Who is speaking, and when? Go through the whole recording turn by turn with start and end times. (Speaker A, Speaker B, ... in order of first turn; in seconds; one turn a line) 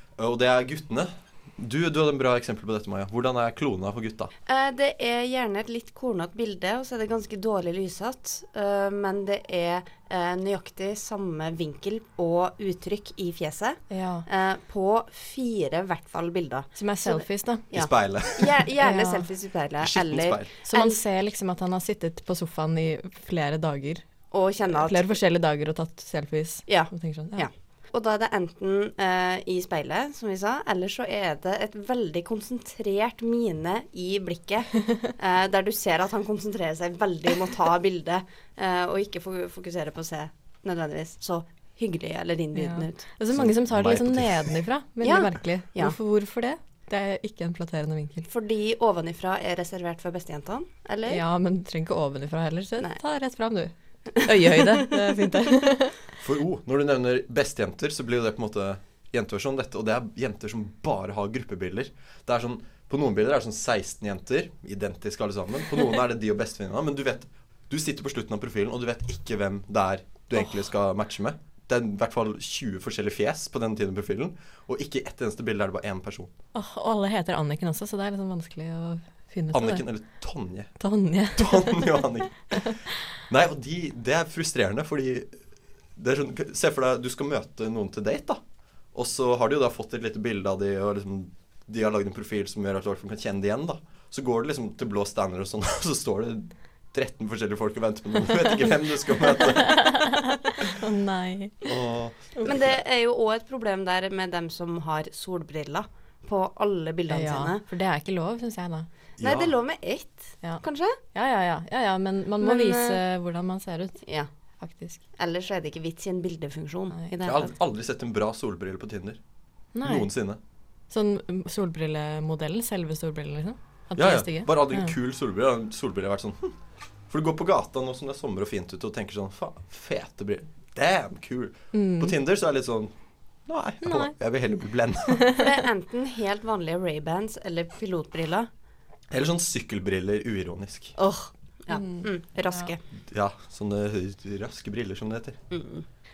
Speaker A: 0.2-4.3
Speaker B: 4.5-21.0
Speaker C: 13.9-14.3
Speaker C: 16.8-17.7
Speaker A: 17.7-18.7
Speaker C: 18.8-19.3
Speaker A: 19.8-20.5
Speaker C: 20.7-24.1
Speaker B: 24.3-25.1
Speaker C: 24.7-27.5
Speaker B: 26.7-43.0
Speaker C: 42.5-48.3
Speaker A: 43.3-44.6
Speaker B: 45.0-46.0
Speaker B: 48.3-51.2
Speaker C: 51.1-56.0
Speaker B: 54.2-54.8
Speaker A: 56.2-76.3
Speaker C: 76.5-79.8
Speaker A: 79.5-80.7
Speaker C: 80.8-82.8
Speaker A: 81.3-82.6
Speaker A: 83.3-85.3
Speaker A: 86.0-88.4
Speaker A: 88.9-100.0
Speaker C: 99.3-101.7
Speaker A: 101.6-102.8
Speaker B: 102.4-107.6
Speaker C: 107.1-108.9
Speaker A: 109.2-109.5
Speaker B: 109.2-111.0
Speaker C: 111.1-114.0
Speaker B: 112.4-113.0
Speaker C: 114.6-115.0
Speaker B: 115.2-117.5
Speaker A: 117.2-119.2
Speaker C: 119.8-120.1
Speaker A: 119.8-120.4
Speaker C: 120.9-124.9
Speaker A: 124.0-126.6
Speaker A: 127.1-132.9
Speaker C: 131.7-132.2
Speaker A: 133.5-135.3
Speaker C: 133.8-134.1
Speaker C: 135.1-135.5
Speaker B: 135.3-138.5
Speaker A: 139.1-140.9
Speaker B: 141.0-142.8
Speaker C: 141.7-142.7
Speaker A: 143.1-145.4
Speaker B: 145.5-145.8